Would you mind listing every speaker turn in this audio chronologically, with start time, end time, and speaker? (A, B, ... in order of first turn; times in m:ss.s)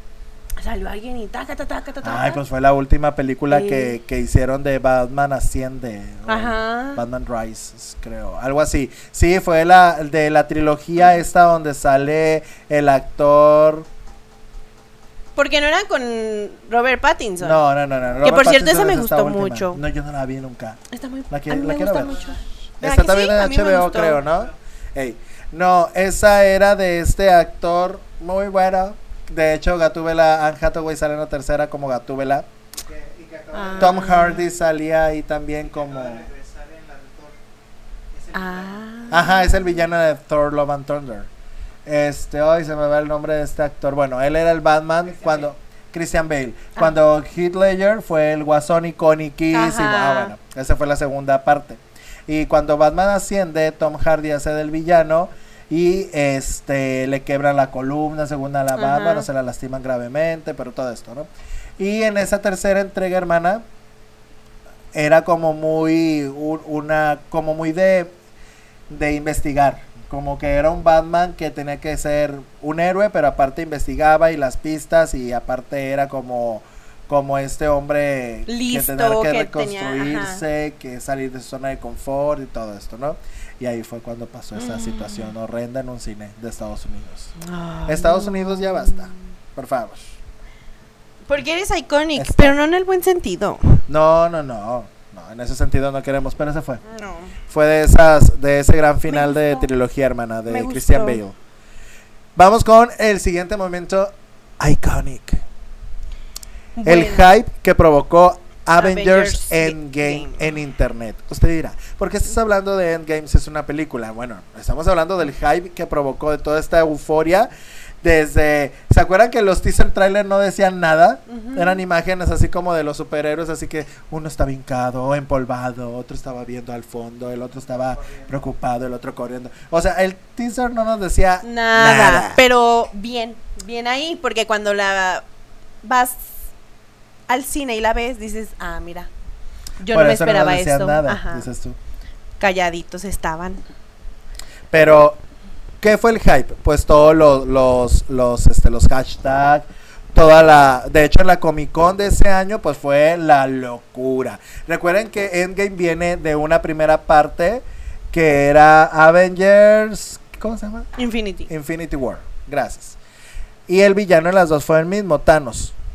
0:00.6-0:02.4 A
0:02.0-0:13.9 B
0:03.5-0:04.0 A
0:06.3-0:07.0 A
0:15.4-0:17.6 A
0:17.4-0:22.2 B
0:18.2-0:19.8 A
0:20.9-0:24.2 A
0:22.1-0:22.4 C
0:22.8-0:32.5 B
0:24.2-0:24.6 C
0:32.8-0:34.4 C
0:33.5-0:34.4 A
0:33.8-0:36.3 B
0:35.6-0:37.4 C
0:38.1-0:39.2 C
0:38.3-0:39.6 A
0:39.1-0:41.3 B
0:41.9-1:03.6 B
0:45.2-0:45.5 C
0:49.5-0:50.3 A
0:58.8-0:59.3 A
1:04.9-1:08.2 B
1:08.9-1:27.3 B
1:18.5-1:20.4 A
1:24.6-1:25.3 A
1:27.4-1:29.2 A
1:27.9-1:30.2 B
1:31.3-1:33.8 A
1:32.2-1:32.6 B
1:33.9-1:36.8 B
1:36.8-1:37.4 A
1:37.5-1:41.4 B
1:39.1-1:39.7 A
1:40.5-1:41.2 A
1:42.4-1:45.4 B
1:46.8-1:47.3 A
1:46.8-1:57.5 B
1:48.8-1:50.5 A
1:58.0-2:12.4 B
2:01.3-2:01.8 A
2:11.4-2:15.2 A
2:15.8-2:16.5 A
2:17.3-2:19.1 A
2:19.8-2:21.5 A
2:19.9-2:21.8 B
2:22.4-2:23.6 A
2:24.7-2:25.2 B
2:25.8-2:40.9 B
2:41.0-2:41.5 A
2:41.5-2:43.0 B
2:43.7-2:45.8 B